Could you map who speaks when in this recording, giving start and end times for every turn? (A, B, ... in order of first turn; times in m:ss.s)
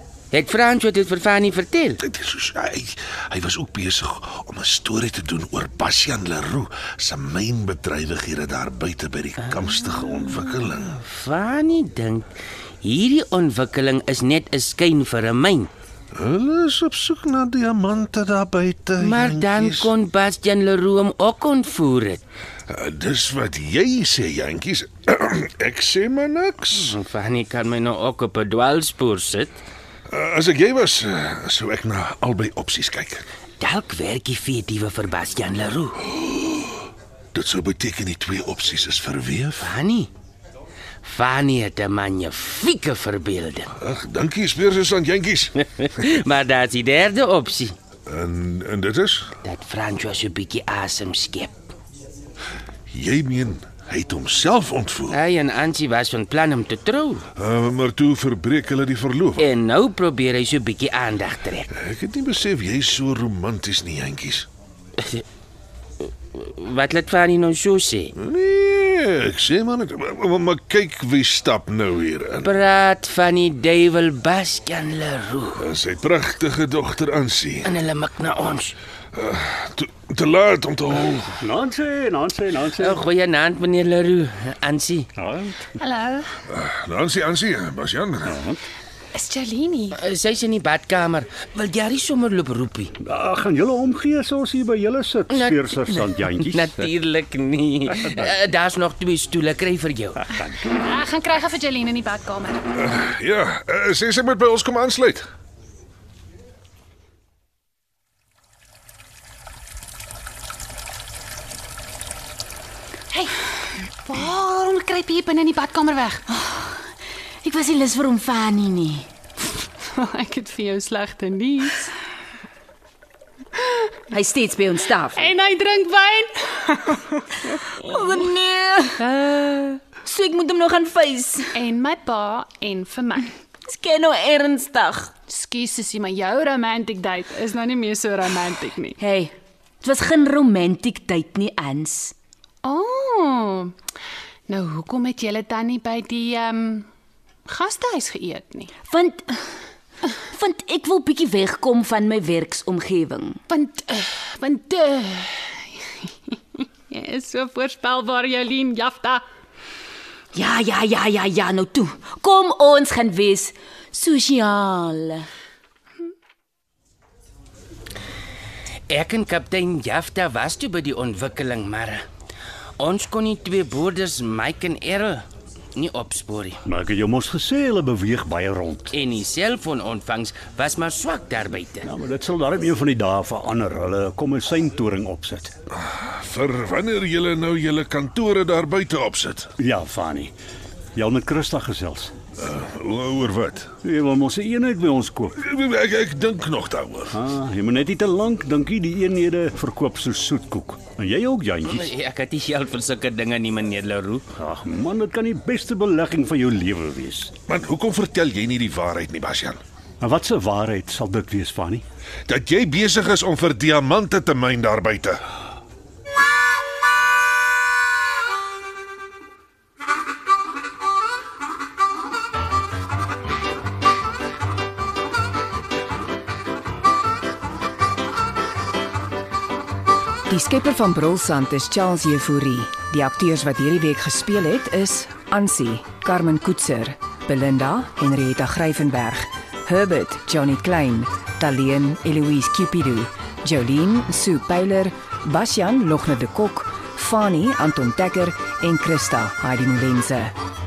0:00.3-0:02.0 A
0:02.0-0:11.0 B
0:09.4-0:09.7 A
0:10.9-0:12.3 A
0:12.8-0:15.7 A
0:16.1-0:19.9 B
0:19.0-0:22.2 A
0:22.7-0:27.0 B
0:26.7-0:29.6 A
0:30.1-0:33.2 B
0:33.6-0:36.0 A
0:36.2-0:36.8 B
0:37.3-0:39.7 B
0:39.6-0:40.1 A
0:41.0-0:43.7 A
0:43.8-0:45.6 B
0:45.8-0:47.8 A
0:48.1-0:49.3 B
0:49.4-0:51.6 A
0:52.9-0:55.2 B
0:55.1-0:57.3 A
0:57.4-0:59.5 B
0:59.4-1:01.7 A
1:01.7-1:04.5 B
1:06.3-1:08.1 A
1:08.2-1:12.5 B
1:12.4-1:15.6 A
1:15.6-1:17.7 B
1:17.6-1:18.8 A
1:19.1-1:21.4 B
1:21.4-1:23.0 C
1:22.8-1:25.1 A
1:25.2-1:25.7 C
1:25.8-1:26.3 D
1:26.5-1:28.4 B
1:28.3-1:28.6 C
1:29.2-1:30.0 D
1:29.9-1:32.9 A
1:33.0-1:36.9 C
1:35.3-1:40.3 A
1:40.7-1:42.6 D
1:42.8-1:45.3 B
1:53.1-1:56.2 D
1:56.3-1:56.8 E
1:57.4-1:59.1 E
1:59.6-2:01.9 D
2:03.6-2:03.9 D
2:04.1-2:05.3 E
2:05.1-2:07.6 D
2:07.9-2:11.6 E
2:09.0-2:09.6 D
2:11.5-2:13.4 D
2:13.7-2:15.1 E
2:15.3-2:19.0 D
2:19.0-2:22.2 E
2:22.6-2:23.8 D
2:24.5-2:26.9 D
2:27.5-2:28.7 D
2:28.8-2:29.4 E
2:30.3-2:33.4 E
2:33.5-2:39.2 D
2:40.3-2:45.3 E
2:48.9-2:52.0 A
2:52.8-2:55.2 A
2:55.8-2:56.6 A
2:56.6-2:58.9 C
2:58.9-3:01.9 A
3:01.8-3:05.6 C
3:05.8-3:09.5 B
3:09.6-3:10.4 C
3:11.0-3:12.1 C
3:12.4-3:13.7 B
3:13.8-3:15.4 C
3:15.4-3:17.2 B
3:17.1-3:21.9 C
3:21.7-3:24.2 A
3:24.4-3:27.3 C
3:27.5-3:29.6 B
3:30.0-3:31.8 C
3:32.3-3:35.2 B
3:50.3-4:10.3 F